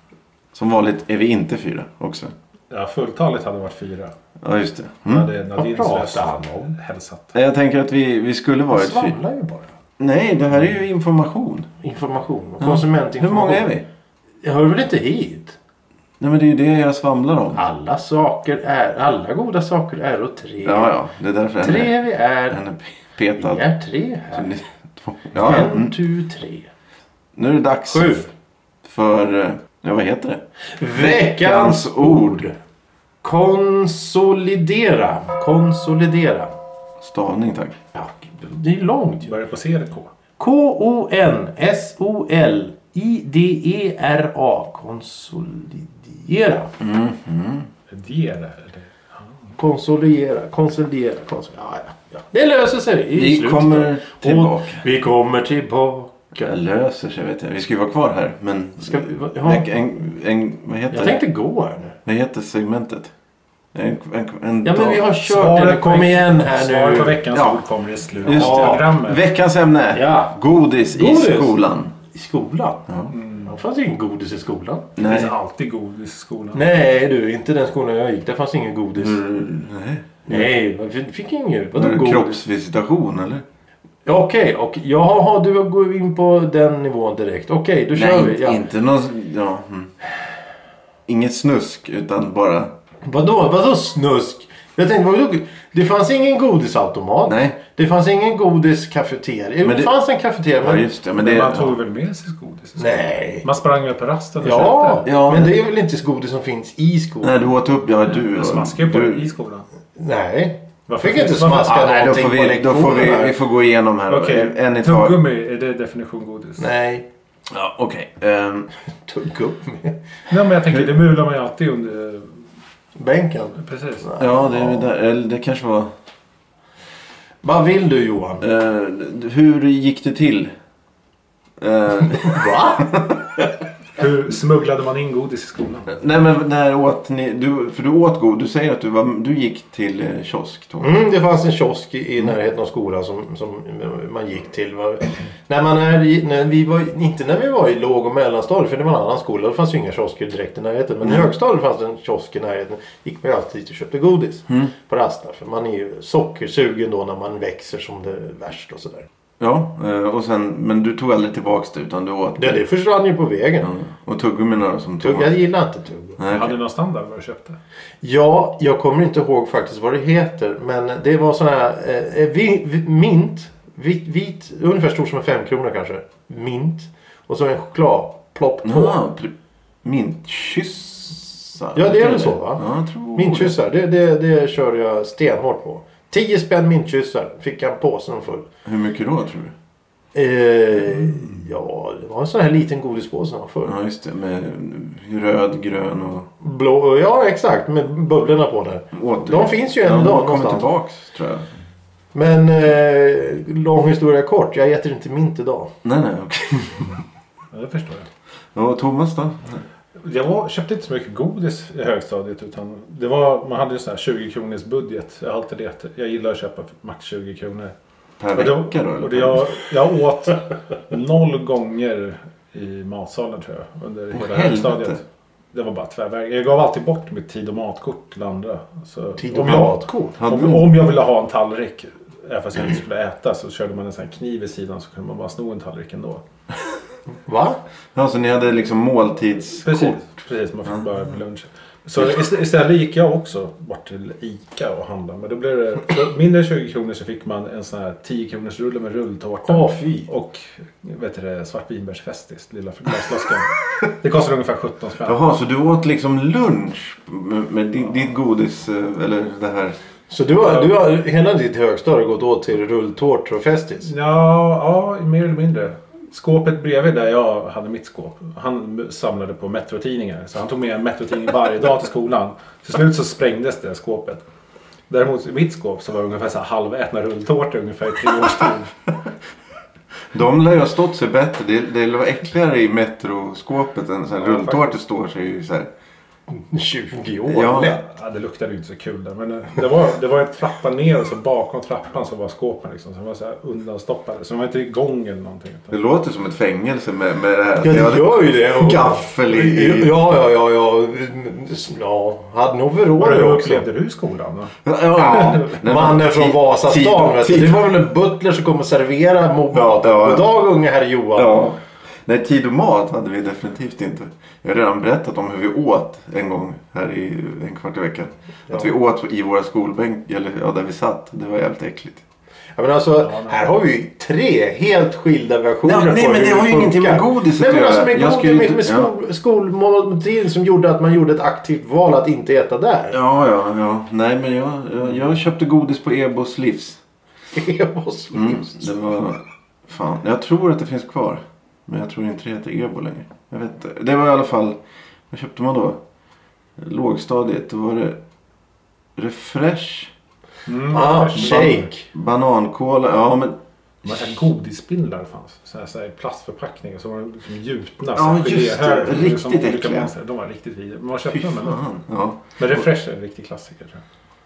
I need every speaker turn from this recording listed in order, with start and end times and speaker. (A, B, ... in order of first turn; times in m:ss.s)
0:00.5-0:02.3 A
0:02.7-0:04.1 B
0:04.4-0:05.3 A
0:05.1-0:07.4 B
0:05.6-0:06.7 C
0:07.3-0:09.2 A
0:08.7-0:09.7 C
0:10.0-0:11.7 A
0:11.8-0:13.7 C
0:12.6-0:13.9 A
0:14.4-0:15.6 C
0:16.2-0:17.6 A
0:17.5-0:20.9 C
0:20.6-0:22.0 A
0:21.6-0:22.6 C
0:22.5-0:23.6 A
0:23.4-0:24.6 C
0:24.3-0:25.9 A
0:25.3-0:26.7 C
0:27.3-0:28.2 A
0:27.9-0:28.2 C
0:28.8-0:30.4 A
0:30.8-0:32.5 C
0:31.0-0:32.5 A
0:33.2-0:36.5 C
0:37.0-0:37.8 A
0:37.9-0:39.3 C
0:39.2-0:40.1 B
0:40.4-0:46.7 C
0:46.8-0:47.7 A
0:47.9-0:49.6 B
0:49.6-0:56.5 C
0:53.1-0:54.8 A
0:56.4-1:01.2 A
0:58.8-0:59.6 C
1:00.9-1:02.0 C
1:02.0-1:03.1 A
1:03.7-1:05.0 A
1:04.6-1:07.2 C
1:05.2-1:09.2 B
1:07.3-1:07.6 A
1:08.2-1:11.9 A
1:08.2-1:08.8 C
1:09.9-1:10.3 C
1:10.9-1:12.9 C
1:12.9-1:13.1 A
1:13.1-1:13.5 B
1:13.4-1:15.0 C
1:15.0-1:15.3 A
1:15.0-1:16.6 B
1:16.5-1:19.2 C
1:19.0-1:20.5 A
1:20.3-1:22.4 C
1:21.8-1:23.4 A
1:24.0-1:28.6 C
1:27.9-1:29.9 A
1:31.1-1:32.7 A
1:33.0-1:40.8 C
1:37.3-1:37.6 A
1:39.6-1:39.9 A
1:40.6-1:41.8 A
1:41.1-1:45.0 B
1:42.8-1:43.4 C
1:44.4-1:47.4 C
1:45.0-1:45.6 A
1:47.2-1:49.2 A
1:48.0-1:49.6 B
1:50.0-1:53.3 C
1:50.9-1:51.9 B
1:51.6-1:55.2 A
1:54.1-1:56.7 B
1:56.6-1:57.0 C
1:57.5-1:58.7 A
1:59.1-2:00.0 C
2:00.3-2:02.4 B
2:03.0-2:04.9 C
2:03.6-2:04.1 B
2:04.2-2:05.9 A
2:07.4-2:08.4 C
2:08.4-2:10.5 A
2:11.6-2:13.3 A
2:12.2-2:12.9 C
2:14.0-2:15.9 B
2:15.9-2:20.9 A
2:20.8-2:39.0 C
2:31.0-2:31.3 A
2:34.5-2:34.7 A
2:39.4-2:42.6 A
2:42.4-2:43.7 C
2:43.6-2:45.4 A
2:45.0-2:46.2 C
2:46.2-2:46.6 A
2:46.3-2:47.6 B
2:48.0-2:59.0 C
2:58.6-3:03.6 A
3:01.7-3:08.5 C
3:08.6-3:09.5 A
3:10.1-3:13.7 C
3:13.6-3:16.3 A
3:16.4-3:20.6 C
3:18.9-3:21.4 A
3:22.1-3:25.7 C
3:25.8-3:26.9 A
3:27.5-3:28.1 B
3:28.5-3:29.6 A
3:30.0-3:37.7 B
3:38.2-3:39.5 A
3:38.3-3:56.2 B
3:44.1-3:45.0 A
3:49.2-3:50.2 C
3:50.2-3:50.7 A
3:57.2-3:57.6 C
3:57.9-4:00.0 A
3:59.6-4:15.2 B
4:09.5-4:10.1 C
4:15.1-4:19.8 A
4:20.1-4:23.9 C
4:23.8-4:34.2 B
4:34.9-4:38.7 B
4:40.1-4:45.7 A
4:44.2-4:44.8 B
4:46.3-4:47.8 C
4:47.2-4:47.8 A
4:47.8-4:55.8 B
4:55.7-4:59.9 A
4:57.6-5:03.6 C
5:03.0-5:04.6 B
5:04.6-5:07.7 A
5:04.9-5:11.4 C
5:09.5-5:10.3 A
5:11.1-5:22.0 A
5:22.6-5:33.0 C
5:23.0-5:23.4 B
5:25.6-5:28.9 A
5:32.9-5:36.8 A
5:37.3-5:38.7 C
5:38.1-5:44.6 A
5:45.1-5:45.8 A
5:46.6-5:48.0 A
5:49.0-5:49.9 A
5:50.5-5:51.7 B
5:50.7-5:51.8 C
5:51.1-5:53.4 A
5:53.8-6:01.6 B
5:58.0-5:59.9 A
6:01.1-6:02.6 A
6:02.4-6:03.8 B